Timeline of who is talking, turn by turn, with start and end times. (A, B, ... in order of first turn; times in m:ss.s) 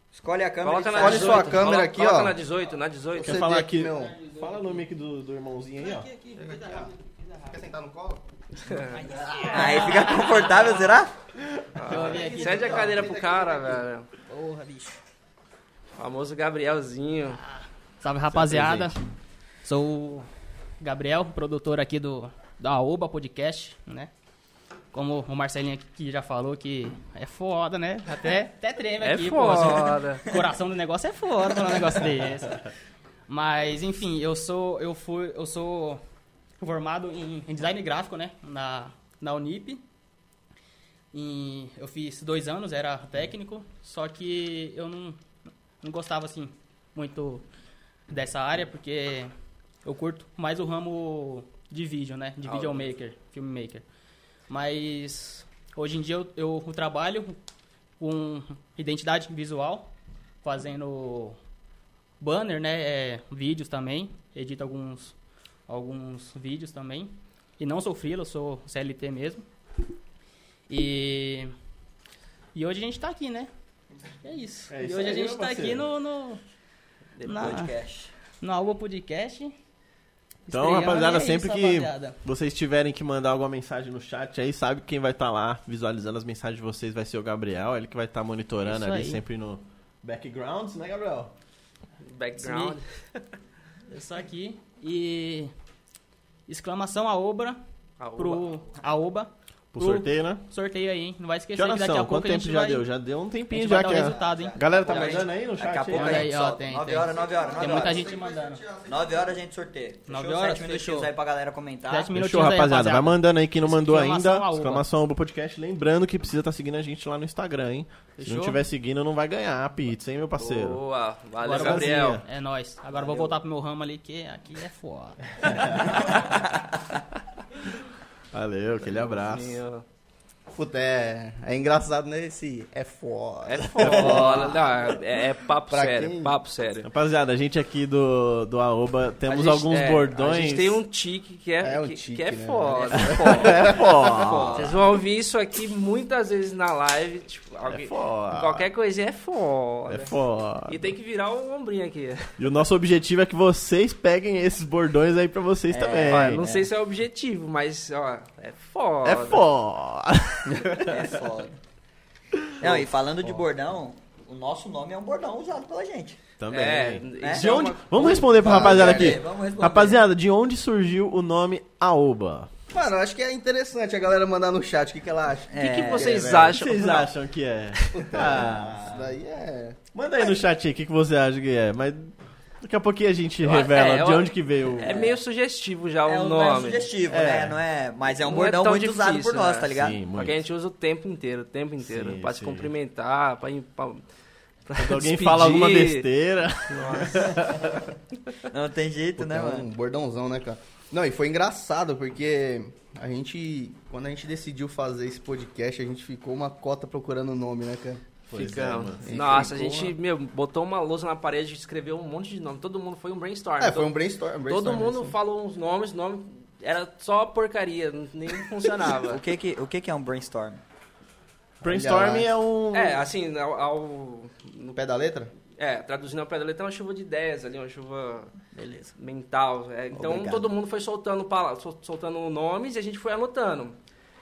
0:00.1-0:01.7 A
0:00.6-0:03.4 B
0:01.0-0:02.4 C
0:03.2-0:04.2 C
0:03.2-0:06.1 D
0:04.1-0:04.6 E
0:05.8-0:07.2 E
0:06.4-0:08.2 C
0:08.6-0:09.1 B
0:08.9-0:10.2 E
0:09.5-0:11.1 A
0:11.8-0:14.1 B
0:11.8-0:13.1 E
0:11.9-0:13.8 C
0:14.3-0:14.9 E
0:16.0-0:17.4 B
0:18.0-0:19.0 E
0:18.3-0:19.0 D
0:19.6-0:20.3 E
0:20.8-0:24.1 E
0:24.9-0:32.7 E
0:29.0-0:30.4 B
0:33.3-0:36.0 E
0:36.6-0:39.8 E
0:41.1-0:45.2 E
0:45.8-0:47.4 E
0:48.1-0:49.3 E
0:49.8-0:53.8 E
0:54.5-0:57.4 E
0:58.0-0:59.9 E
1:00.4-1:01.4 E
1:02.2-1:05.2 E
1:05.7-1:09.5 E
1:10.7-1:11.5 E
1:12.5-1:13.5 E
1:14.2-1:16.4 E
1:14.7-1:15.9 D
1:17.2-1:18.1 A
1:17.2-1:17.7 E
1:18.3-1:19.5 E
1:20.5-1:22.2 E
1:20.5-1:31.3 D
1:28.6-1:29.2 E
1:32.0-1:32.9 B
1:32.4-1:32.8 E
1:33.9-1:35.5 E
1:36.5-1:37.6 E
1:38.0-1:38.5 B
1:38.2-1:42.9 E
1:39.7-1:40.5 D
1:41.6-1:46.3 D
1:43.5-1:45.2 E
1:43.9-1:48.2 A
1:45.9-1:48.6 E
1:47.1-1:49.4 C
1:48.8-1:52.2 A
1:50.1-1:51.1 E
1:51.9-1:54.8 E
1:52.1-2:00.8 D
1:58.2-1:58.5 E
2:00.4-2:02.2 B
2:01.4-2:06.2 E
2:01.5-2:02.2 D
2:03.0-2:03.3 B
2:05.5-2:05.9 D
2:08.3-2:09.6 D
2:08.8-2:09.8 B
2:10.5-2:15.0 C
2:13.5-2:16.9 B
2:13.8-2:14.2 D
2:15.7-2:16.4 C
2:16.8-2:20.8 D
2:19.3-2:23.8 B
2:21.6-2:24.4 C
2:23.3-2:24.7 D
2:23.3-2:24.7 A
2:24.5-2:30.1 B
2:27.7-2:28.7 D
2:29.9-2:30.8 D
2:30.7-2:32.4 B
2:32.4-2:36.4 D
2:35.7-2:36.7 A
2:36.1-2:39.4 B
2:39.0-2:41.0 D
2:40.8-2:41.6 A
2:42.5-2:42.8 D
2:42.6-2:46.2 A
2:46.4-2:52.5 D
2:46.5-2:48.3 B
2:47.2-2:50.0 A
2:48.4-2:49.2 C
2:52.7-2:56.6 C
2:55.5-2:56.4 A
2:55.6-2:57.1 B
2:56.5-2:59.0 D
2:57.8-2:58.1 B
2:57.9-2:59.8 C
2:59.9-3:05.0 D
3:03.4-3:06.9 B
3:04.8-3:05.2 A
3:06.0-3:10.0 A
3:07.1-3:07.6 D
3:08.2-3:14.0 B
3:09.7-3:10.4 D
3:11.8-3:12.7 D
3:14.7-3:16.1 B
3:14.8-3:17.9 D
3:16.7-3:17.7 B
3:18.5-3:19.7 A
3:19.2-3:28.0 C
3:28.3-3:29.6 D
3:28.3-3:34.0 B
3:29.0-3:29.9 C
3:33.6-3:35.2 C
3:34.5-3:39.2 B
3:39.0-3:40.6 A
3:41.6-3:42.3 C
3:41.6-3:43.0 D
3:42.7-3:44.8 B
3:44.8-3:45.3 C
3:45.6-3:48.3 B
3:48.6-3:48.9 C
3:49.0-3:53.8 B
3:50.0-3:50.4 A